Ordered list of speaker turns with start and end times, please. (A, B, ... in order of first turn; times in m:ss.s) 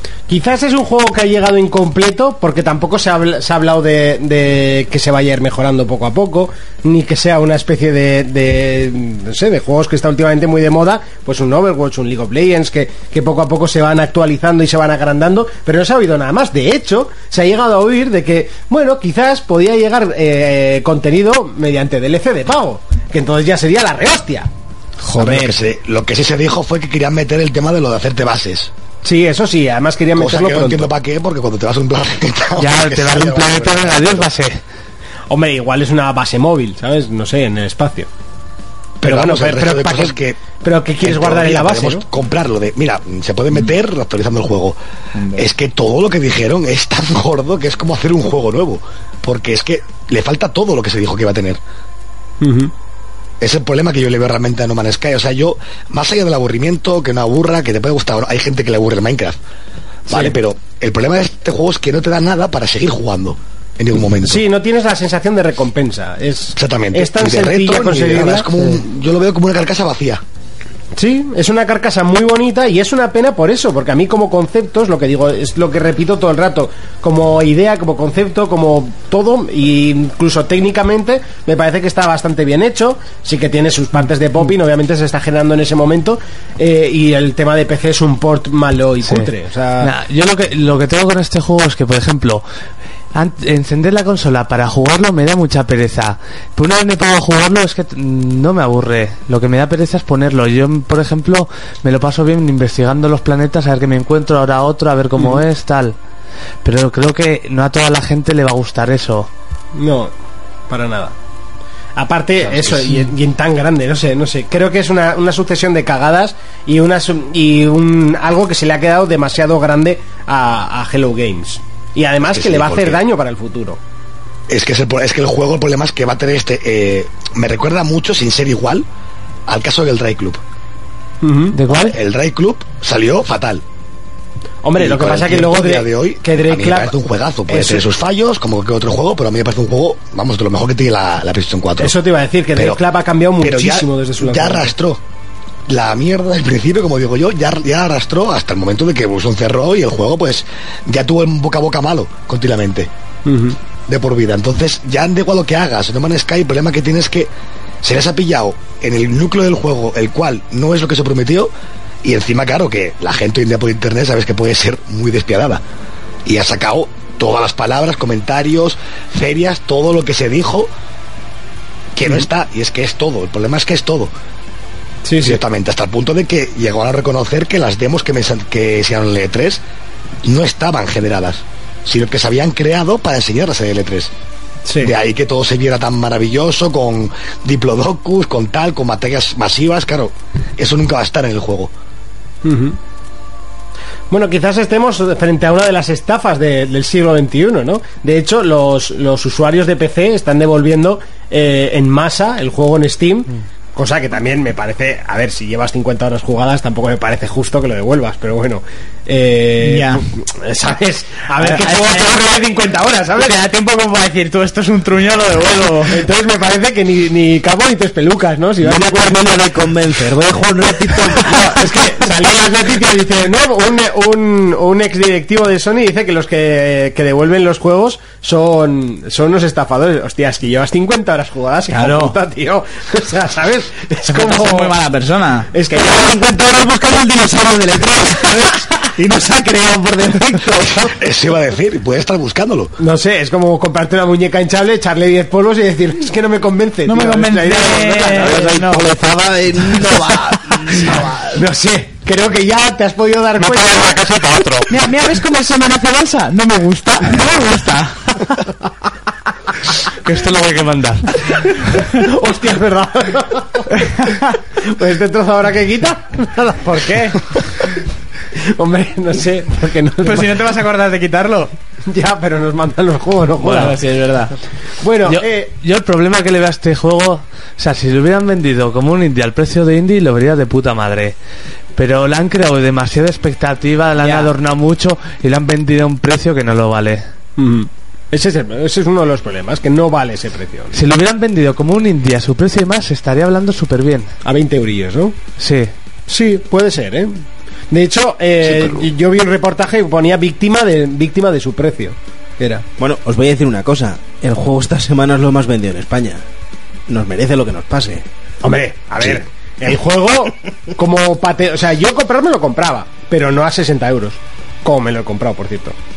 0:00.3-0:24.5 A
0:25.0-0:25.6 B
0:25.1-0:28.7 C
0:29.0-0:30.9 A
0:30.2-0:34.3 C
0:32.6-0:34.6 D
0:35.3-0:38.1 A
0:39.0-0:40.4 C
0:39.0-0:42.0 A
0:41.0-0:44.8 C
0:45.2-0:45.4 B
0:45.3-0:51.6 C
0:52.4-0:52.7 A
0:53.4-0:59.4 C
1:00.1-1:04.4 C
1:00.1-1:00.4 A
1:04.2-1:08.5 A
1:06.6-1:10.2 C
1:10.9-1:29.9 A
1:29.0-1:32.4 D
1:33.1-1:46.0 D
1:46.6-1:49.3 D
1:49.7-1:50.1 A
1:50.7-1:51.1 A
1:52.0-2:03.8 A
2:02.3-2:03.0 C
2:04.5-2:08.8 C
2:09.5-2:10.4 C
2:11.2-2:11.6 A
2:11.5-2:12.0 D
2:11.7-2:13.6 C
2:14.6-2:17.0 A
2:14.8-2:22.0 C
2:17.5-2:17.8 A
2:21.8-2:24.7 A
2:22.5-2:22.8 C
2:23.4-2:25.0 C
2:25.7-2:32.9 C
2:33.2-2:33.6 A
2:33.9-2:37.3 C
2:37.8-2:41.5 C
2:42.0-2:45.6 C
2:46.2-2:50.7 C
2:51.9-2:54.1 C
2:55.0-2:55.4 A
2:55.2-2:59.6 C
3:00.2-3:04.1 C
3:04.6-3:04.9 A
3:04.8-3:11.7 C
3:12.4-3:12.8 A
3:14.1-3:33.4 A
3:29.6-3:30.0 B
3:31.4-3:32.2 B
3:33.2-3:36.0 B
3:35.9-3:39.5 A
3:38.6-3:41.3 E
3:40.9-3:41.4 B
3:41.3-3:54.8 A
3:51.7-3:52.2 B
3:54.1-3:55.9 B
3:55.5-4:00.9 A
4:00.9-4:02.7 C
4:02.8-4:08.6 A
4:06.8-4:09.0 B
4:08.2-4:11.3 E
4:09.6-4:10.1 B
4:11.3-4:14.2 A
4:13.4-4:14.7 D
4:14.7-4:18.4 B
4:20.0-4:21.1 D
4:21.8-4:27.5 A
4:26.6-4:27.2 B
4:28.4-4:30.4 A
4:30.0-4:31.5 B
4:31.9-4:33.8 A
4:33.4-4:34.3 B
4:34.8-4:35.5 A
4:35.0-4:41.2 D
4:41.8-4:47.0 D
4:44.0-4:44.3 B
4:47.4-4:50.7 A
4:50.7-4:54.1 D
4:54.2-4:55.1 A
4:55.4-4:55.7 D
4:56.1-4:57.1 A
4:57.7-5:02.6 A
5:02.8-5:06.2 E
5:06.9-5:08.0 E
5:08.4-5:15.8 A